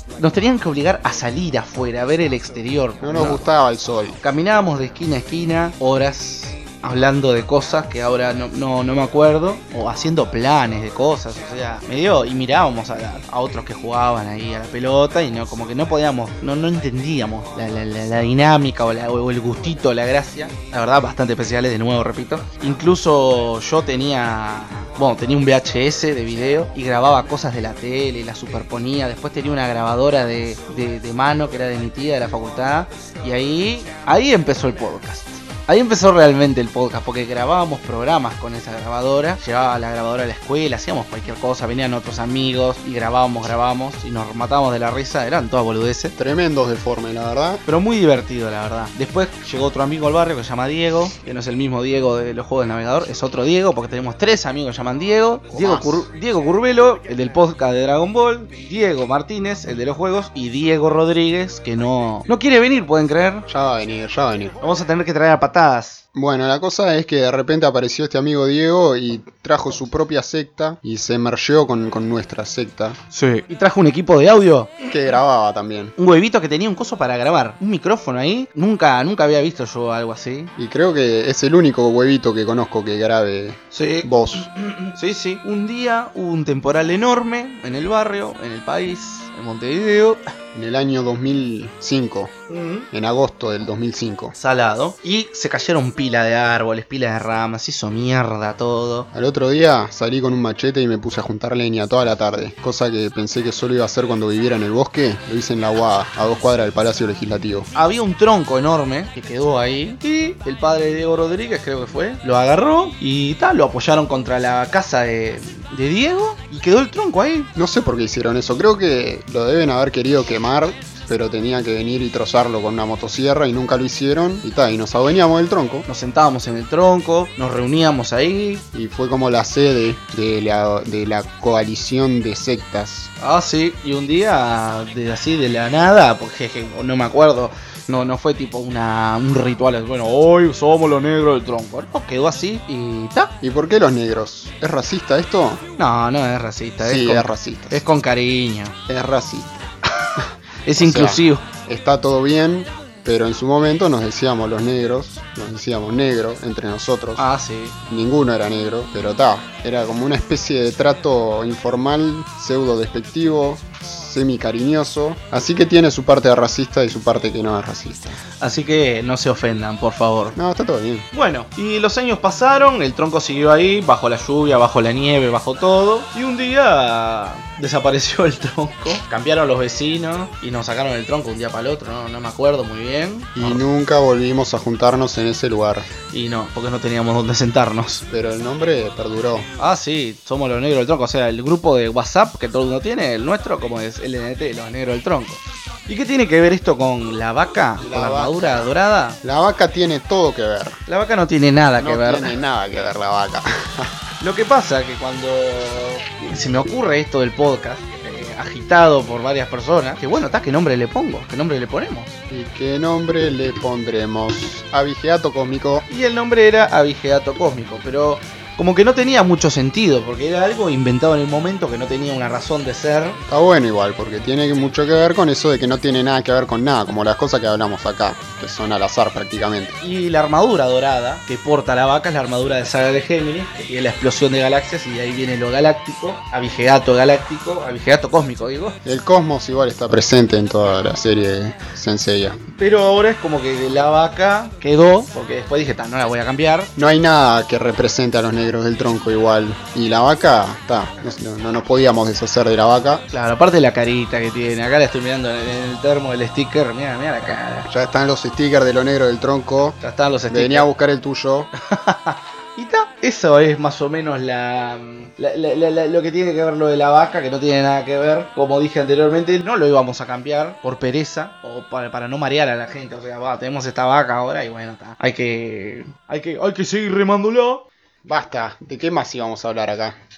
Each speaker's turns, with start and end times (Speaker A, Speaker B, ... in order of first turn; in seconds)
Speaker A: 0.2-3.5, 4.2-46.1, 47.7-63.5, 64.6-66.0, 73.1-74.9, 76.0-80.5, 83.7-90.2, 92.5-92.9, 94.4-99.1, 107.8-117.5, 125.9-128.6, 133.2-143.3, 145.8-148.8, 150.7-151.4, 157.2-157.8, 168.4-170.4, 171.1-183.6, 186.1-188.0, 189.6-199.2, 200.9-202.4, 204.2-212.2, 215.9-223.2, 229.8-238.8, 242.6-246.7, 253.1-257.7, 259.8-260.7, 261.6-277.6
Speaker B: 3.0-4.2, 46.2-47.6, 55.5-56.1, 63.5-64.6, 66.2-73.0, 74.9-75.9, 80.6-84.5, 90.5-92.3, 92.9-94.3, 99.1-107.7, 117.6-125.9, 128.7-133.1, 143.4-145.6, 146.8-147.8, 148.9-149.6, 150.8-157.3, 157.9-168.2, 170.4-171.1, 183.4-185.9, 188.1-189.5, 197.8-198.7, 199.2-200.8, 201.8-203.9, 212.3-215.9, 223.3-229.8, 238.8-242.4, 246.8-253.0, 257.7-259.8, 260.3-261.5, 278.1-279.9